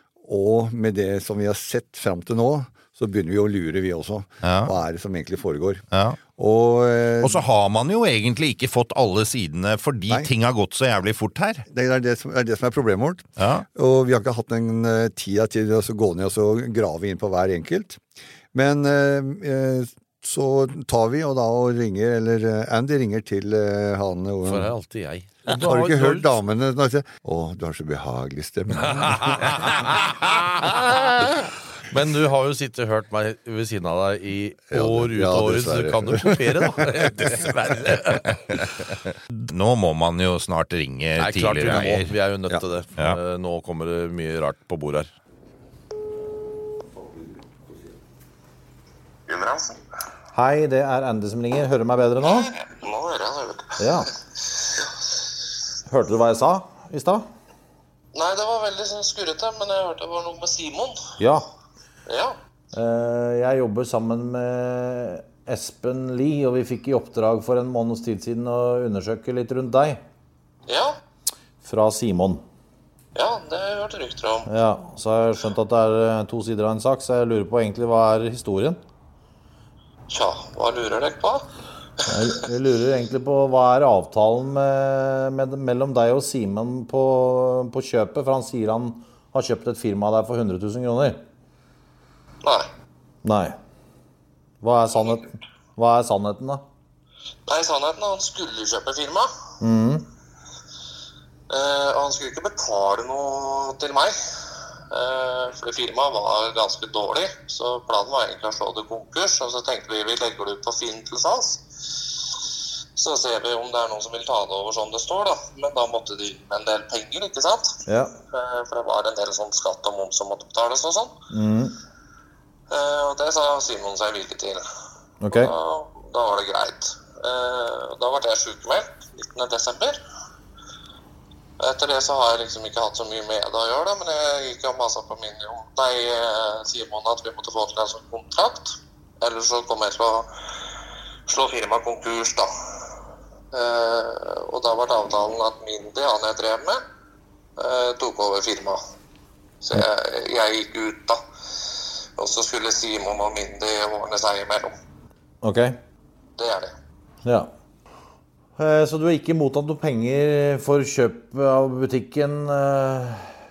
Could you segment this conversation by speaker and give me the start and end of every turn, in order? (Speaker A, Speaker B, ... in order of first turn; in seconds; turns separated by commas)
Speaker A: 0.2-7.4, Speaker B: 4.4-4.7, Speaker B: 5.9-6.2, Speaker B: 7.2-11.6, Speaker A: 11.7-18.0, Speaker B: 13.4-13.6, Speaker A: 18.5-24.7, Speaker C: 24.4-26.4, Speaker A: 25.5-29.6, Speaker C: 28.8-30.7, Speaker B: 30.6-31.4, Speaker C: 31.9-38.6, Speaker A: 34.7-36.8, Speaker B: 39.3-42.1, Speaker C: 41.2-45.1, Speaker D: 49.3-49.8, Speaker E: 50.3-52.5, Speaker D: 52.2-53.8, Speaker E: 53.8-54.1, Speaker E: 55.9-57.2, Speaker D: 58.1-61.0, Speaker E: 61.2-61.4, Speaker D: 62.1-62.4, Speaker E: 62.7-70.0, Speaker D: 70.7-71.0, Speaker E: 71.6-72.4, Speaker D: 73.1-74.5, Speaker E: 74.5-78.8, Speaker D: 80.1-81.5, Speaker E: 82.0-91.2, Speaker E: 93.2-93.6, Speaker E: 94.6-96.6, Speaker D: 97.5-99.3, Speaker E: 99.6-100.0, Speaker D: 101.5-104.2, Speaker D: 104.9-111.6, Speaker D: 113.0-117.8, Speaker E: 117.9-118.1, Speaker D: 118.3-121.1, Speaker E: 121.3-121.8, Speaker D: 122.7-124.6, Speaker E: 125.2-125.5, Speaker D: 125.3-130.0, Speaker D: 131.6-140.3, Speaker D: 141.3-142.5, Speaker D: 143.5-146.8, Speaker D: 147.6-148.8, Speaker D: 149.6-151.2, Speaker D: 152.2-154.7, Speaker E: 155.4-155.8, Speaker D: 156.4-156.7, Speaker E: 157.2-157.5, Speaker E: 158.6-163.3